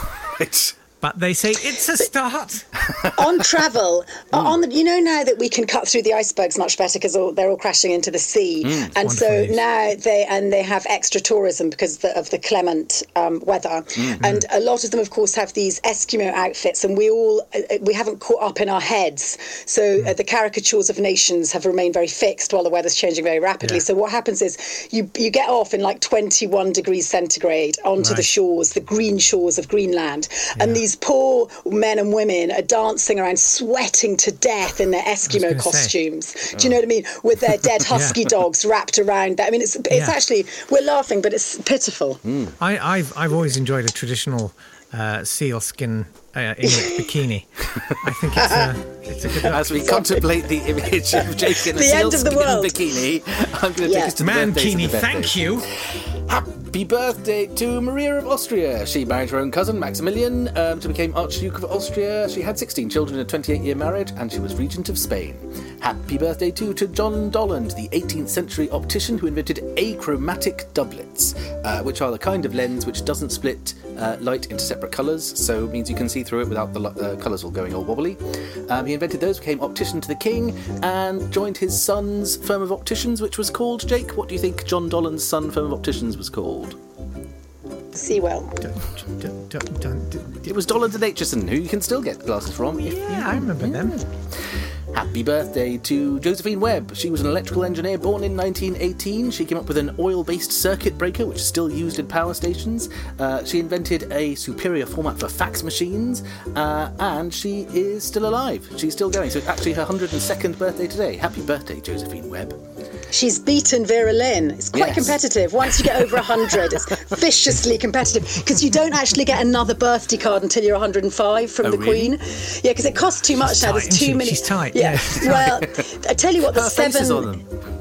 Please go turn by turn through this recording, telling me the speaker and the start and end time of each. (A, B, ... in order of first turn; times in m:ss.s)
0:00.1-0:00.7 A
0:01.0-0:02.7 B
0:03.1-0:42.2 C
0:08.6-0:09.0 A
0:09.0-0:09.6 B
0:14.0-0:14.2 A
0:28.0-0:28.2 B
0:30.6-0:30.8 B
0:35.3-0:35.9 B
0:37.9-0:38.2 B
0:39.9-0:40.2 B
0:42.2-0:42.6 A
0:42.6-0:50.0 B
0:46.6-0:47.1 C
0:48.4-0:48.7 C
0:49.3-0:50.2 C
0:49.4-1:26.8 A
0:51.1-0:53.0 C
0:53.8-0:54.1 C
0:54.2-0:55.7 B
1:27.9-1:28.6 C
1:28.6-1:30.5 B
1:30.4-1:34.0 A
1:32.8-1:34.0 B
1:34.9-1:52.6 A
1:53.1-2:07.3 C
1:54.7-1:55.2 A
1:55.7-1:56.2 A
2:01.6-2:02.2 A
2:03.4-2:05.6 B
2:06.5-2:07.5 A